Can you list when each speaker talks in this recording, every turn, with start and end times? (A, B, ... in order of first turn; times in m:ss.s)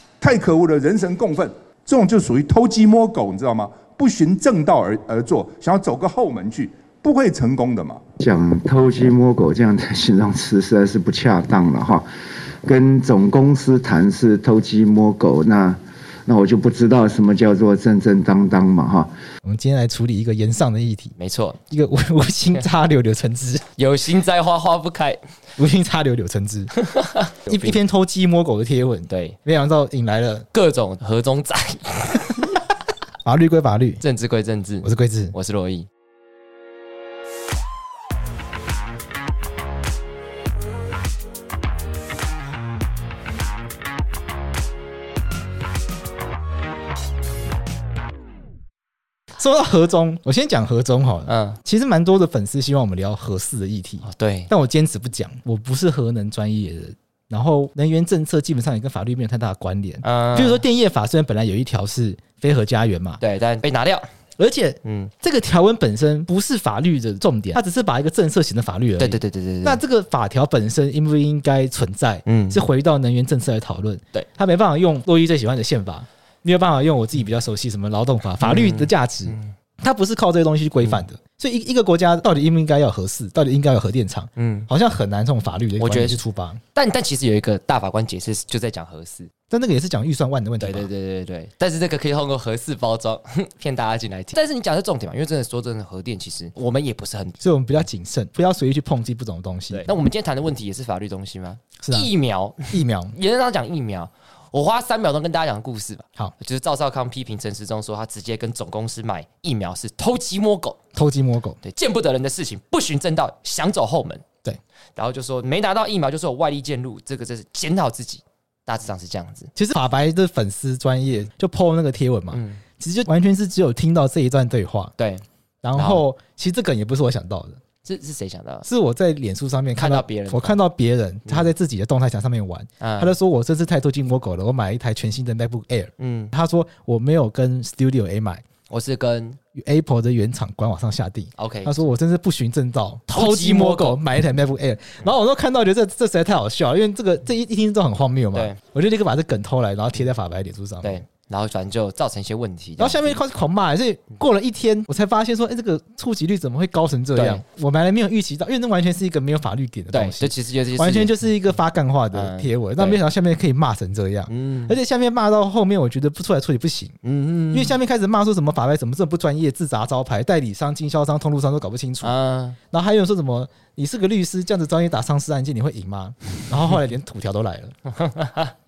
0:00.2-0:08.0 A
0:08.2-0:12.0 B
0:12.6-0:19.1 B
0:19.4-0:21.1 C
0:21.2-0:21.6 D
0:21.7-0:23.7 C
0:23.8-0:25.2 D
0:25.6-0:26.7 C
0:26.8-0:27.8 D
0:27.4-0:30.5 C
0:29.1-0:29.4 D
0:30.5-0:32.6 D
0:33.2-0:34.0 C
0:34.0-0:35.9 D
0:34.8-0:35.3 C
0:49.4-1:03.2 C
0:51.3-0:51.6 D
0:54.0-0:54.5 D
1:00.0-1:00.6 D
1:03.2-1:04.0 D
1:04.4-1:26.6 C
1:04.8-1:05.1 D
1:09.0-1:09.8 D
1:12.2-1:12.6 D
1:18.4-1:19.5 D
1:24.4-1:24.7 D
1:25.8-1:26.2 D
1:26.7-1:29.3 D
1:29.5-1:30.9 C
1:30.6-1:37.4 D
1:37.4-1:39.9 C
1:39.7-1:50.8 D
1:41.8-1:42.1 C
1:42.7-1:43.1 C
1:50.9-1:51.6 C
1:51.6-1:54.2 D
1:55.0-1:59.5 D
1:59.5-2:04.9 C
2:02.3-2:02.6 D
2:05.0-2:05.2 D
2:05.6-2:07.6 C
2:05.8-2:06.0 D
2:07.8-2:08.7 D
2:08.6-2:18.4 C
2:09.8-2:10.6 D
2:12.8-2:13.1 D
2:16.0-2:16.3 D
2:18.7-2:19.4 D
2:19.5-2:31.0 C
2:21.4-2:21.7 D
2:23.1-2:24.0 D
2:28.3-2:28.6 D
2:30.8-2:33.2 D
2:32.8-2:47.0 C
2:37.1-2:37.4 D
2:39.9-2:41.1 D
2:42.1-2:43.0 D
2:44.3-2:44.8 D
2:47.0-2:47.8 D
2:47.5-2:52.1 C
2:52.0-2:52.6 D
2:52.7-2:57.8 C
2:57.9-2:58.6 D